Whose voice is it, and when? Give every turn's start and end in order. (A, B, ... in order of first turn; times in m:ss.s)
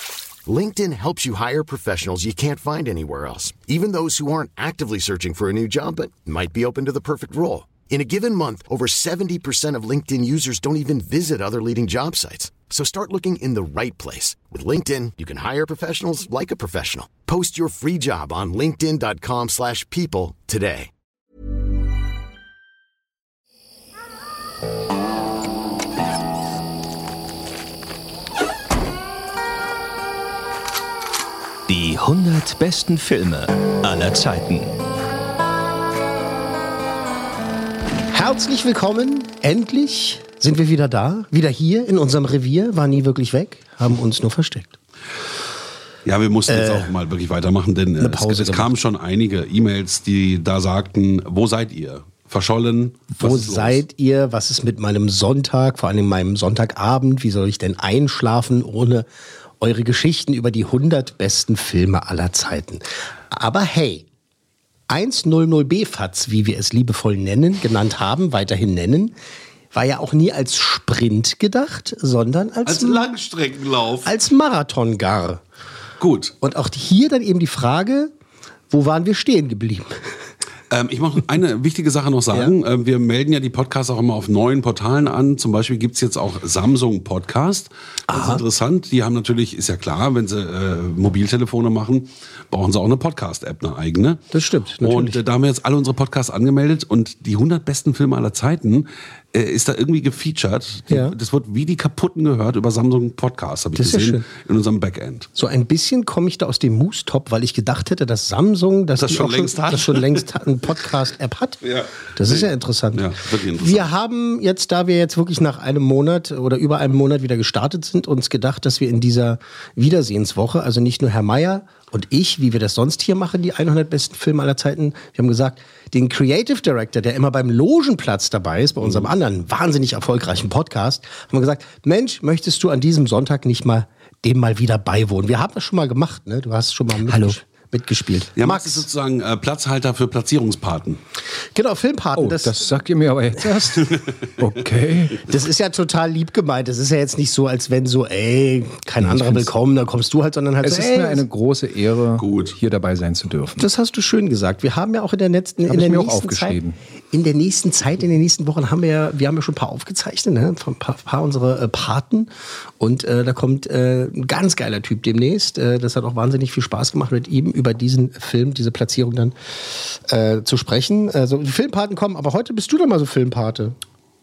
0:00.5-0:20.9 A
0:31.7-0:34.7 B
0:38.1-0:44.7 C
0:46.0-0:53.8 D
0:46.5-0:46.9 C
0:48.0-0:48.8 C
0:53.2-0:59.1 C
0:59.6-1:04.0 C
1:04.9-1:09.1 C
1:09.7-1:13.1 C
1:12.7-1:14.1 D
1:14.0-1:15.4 C
1:16.0-1:16.3 D
1:16.4-1:18.1 C
1:18.7-1:20.0 C
1:20.7-1:34.2 D
1:28.1-1:28.4 C
1:34.3-1:35.2 C
1:34.8-1:45.3 D
1:40.9-1:41.2 C
1:43.8-1:44.3 C
1:45.4-1:51.6 C
1:49.0-1:50.2 D
1:51.6-1:53.9 D
1:52.2-2:18.9 C
2:08.8-2:09.1 D
2:17.0-2:17.4 E
2:18.4-2:21.0 D
2:21.6-2:22.6 C
2:22.2-2:25.2 E
2:25.2-2:31.2 C
2:29.0-2:29.5 E
2:30.6-2:33.6 E
2:32.2-2:32.6 D
2:33.6-2:36.6 C
2:35.7-2:36.8 E
2:37.1-2:42.3 C
2:42.8-2:49.3 C
2:50.1-2:53.8 C